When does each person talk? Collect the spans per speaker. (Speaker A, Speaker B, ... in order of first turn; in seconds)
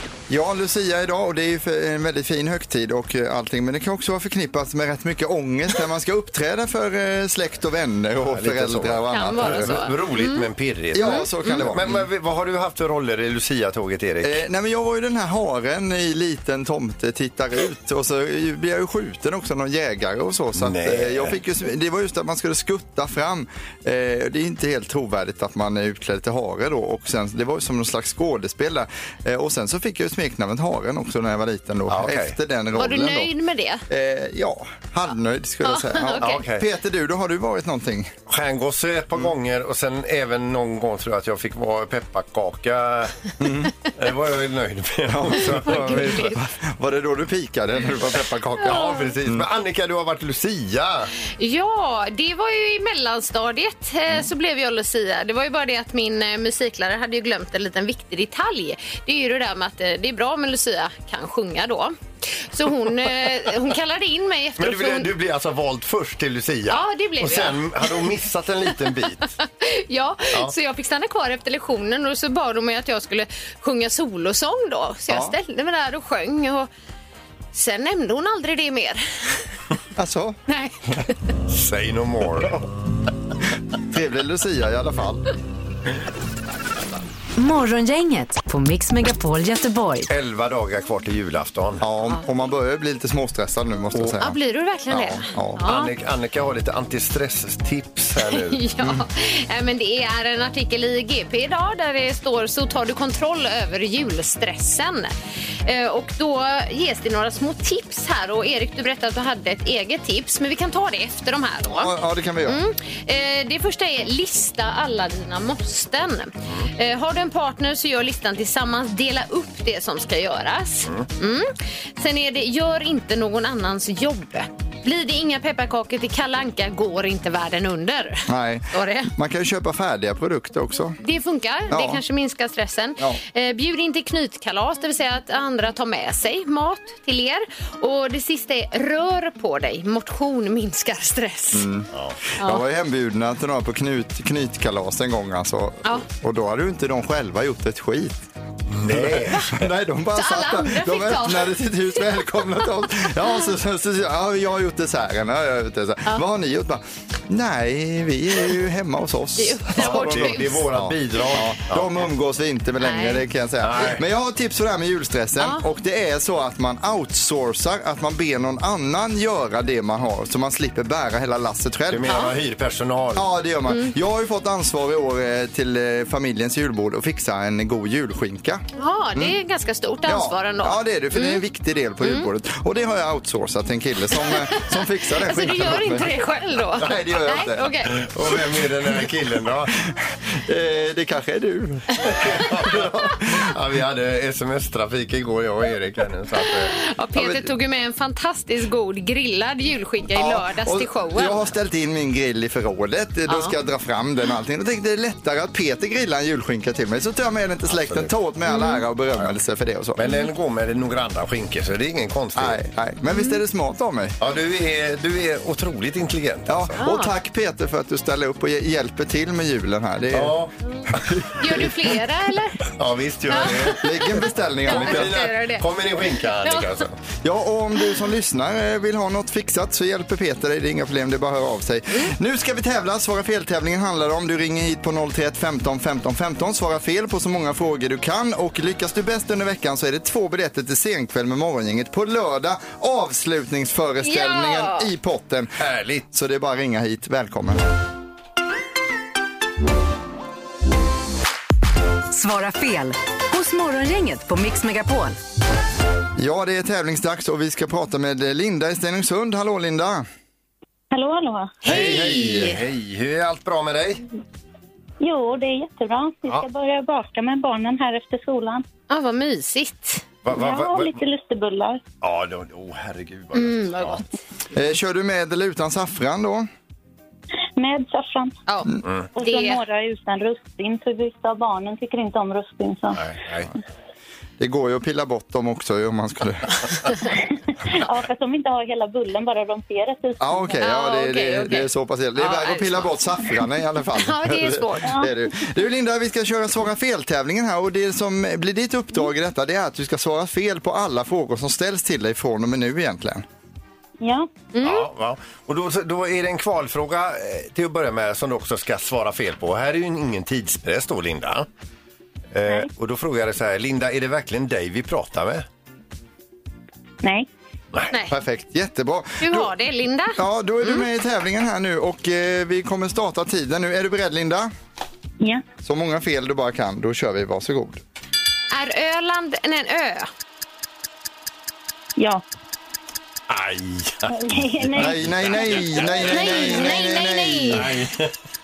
Speaker A: 0.3-9.9, 10.9-12.1, 14.2-33.3, 33.9-38.1, 43.4-43.7, 45.0-49.5, 75.1-75.3, 80.0-80.4, 83.9-85.2, 91.8-94.4, 94.9-95.6, 111.7-112.6, 128.3-131.0, 131.7-132.0, 141.5-141.9, 142.4-148.2, 148.8-172.2, 173.1-178.6, 180.1-187.7, 189.9-192.1, 197.1-197.5, 200.1-210.0, 212.3-214.2, 216.5-222.0, 223.7-225.2, 227.2-245.6, 246.1-247.8, 256.2-260.0, 261.6-262.6, 274.5-276.5, 284.4-286.7, 290.2-303.2, 318.1-319.5, 320.1-324.5, 325.6-327.8, 334.8-337.8
Speaker B: 8.2-14.4, 20.5-21.4, 31.9-32.4, 36.2-36.7, 38.3-43.4, 43.9-46.2, 48.5-51.1, 64.6-69.3, 81.5-82.6, 90.1-91.8, 95.6-98.6, 141.9-142.2, 148.7-149.7, 159.7-161.9, 163.6-164.0, 171.9-173.3, 187.8-189.8, 192.0-196.8, 207.7-208.1, 209.9-212.6, 214.2-216.8, 220.1-220.5, 222.7-227.0, 245.6-246.1, 261.6-264.0, 270.2-271.0, 272.0-274.0, 278.8-279.1, 282.9-283.5, 304.6-311.5, 312.3-315.4, 333.3-336.8, 337.5-338.1
Speaker C: 9.1-11.7, 32.7-33.8, 35.6-36.4, 45.4-46.4, 48.6-49.1, 51.4-65.1, 66.7-68.1, 69.4-76.7, 77.5-79.4, 80.5-81.2, 94.2-95.9, 98.2-105.1, 105.6-111.9, 112.5-129.1, 131.0-141.7, 142.4-142.6, 150.1-152.0, 159.4-160.6, 162.8-163.2, 165.4-165.6, 172.1-172.3, 173.7-173.9, 178.8-181.4, 182.0-182.3, 184.2-187.9, 196.5-201.5, 203.3-203.5, 208.5-208.8, 213.0-213.4, 216.8-217.1, 221.4-222.6, 223.3-224.0, 224.7-225.7, 226.2-226.7, 244.0-244.9, 261.6-262.6, 268.9-270.0, 273.3-274.2, 278.5-279.6, 290.6-292.9, 294.0-294.9, 304.5-304.9, 317.9-318.1, 319.2-320.9, 328.5-330.1, 336.0-337.6
Speaker D: 87.3-90.1, 252.1-255.2
Speaker E: 260.9-261.6, 265.0-268.6, 270.3-271.8, 277.6-278.4, 279.1-283.1, 287.7-290.6, 294.8-295.3, 304.0-304.3, 317.0-317.3, 332.0-332.2, 334.1-336.1